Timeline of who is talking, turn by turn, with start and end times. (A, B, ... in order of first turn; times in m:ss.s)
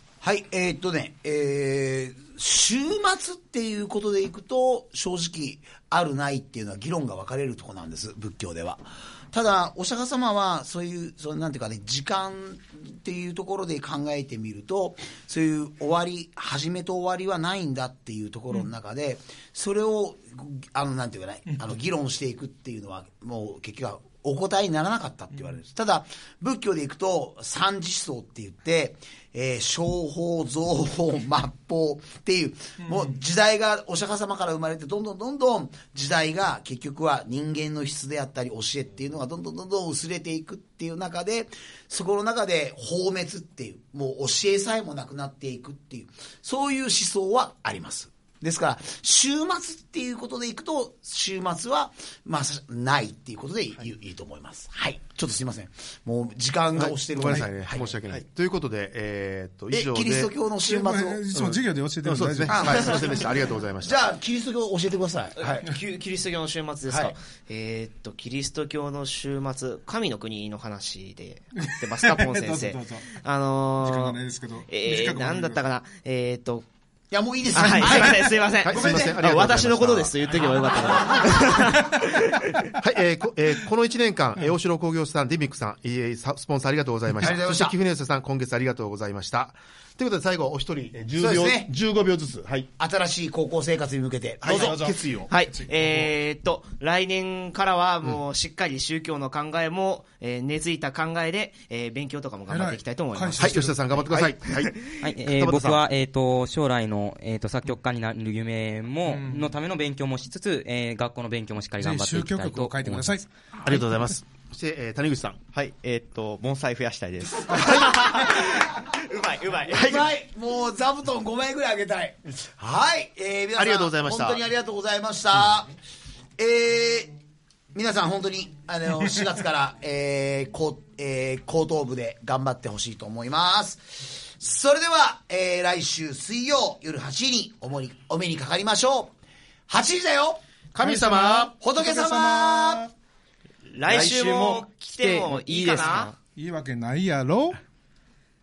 0:00.2-0:58.0 A
0:32.8-0:33.2 B
0:56.8-1:00.3 C
0:59.7-1:01.3 A
1:00.6-1:03.1 B
1:01.3-1:04.0 C
1:02.5-1:03.3 A
1:03.8-1:05.7 A
1:05.4-1:16.7 D
1:06.9-1:07.2 A
1:11.6-1:13.2 B
1:13.8-1:15.6 B
1:17.1-1:19.1 A
1:17.5-1:18.4 B
1:17.6-1:22.7 D
1:18.6-1:20.4 C
1:21.6-1:22.8 B
1:22.8-1:32.7 C
1:27.2-1:27.8 A
1:31.2-1:31.7 A
1:32.8-1:35.0 A
1:34.4-1:35.3 C
1:35.3-1:43.6 D
1:35.5-1:36.1 B
1:42.5-1:44.4 B
1:43.4-1:45.8 C
1:45.0-1:53.2 E
1:49.1-1:49.5 B
1:51.8-1:54.1 B
1:53.6-1:55.4 C
1:55.5-1:58.0 F
1:57.5-2:00.1 D
1:59.7-2:05.7 A
2:03.6-2:04.4 C
2:06.4-2:07.2 A
2:07.7-2:19.1 A
2:19.7-2:20.4 A
2:20.8-2:21.6 C
2:20.8-2:22.9 B
2:21.6-2:22.9 A
2:23.7-2:26.2 D
2:23.9-2:26.1 E
2:26.4-2:27.6 B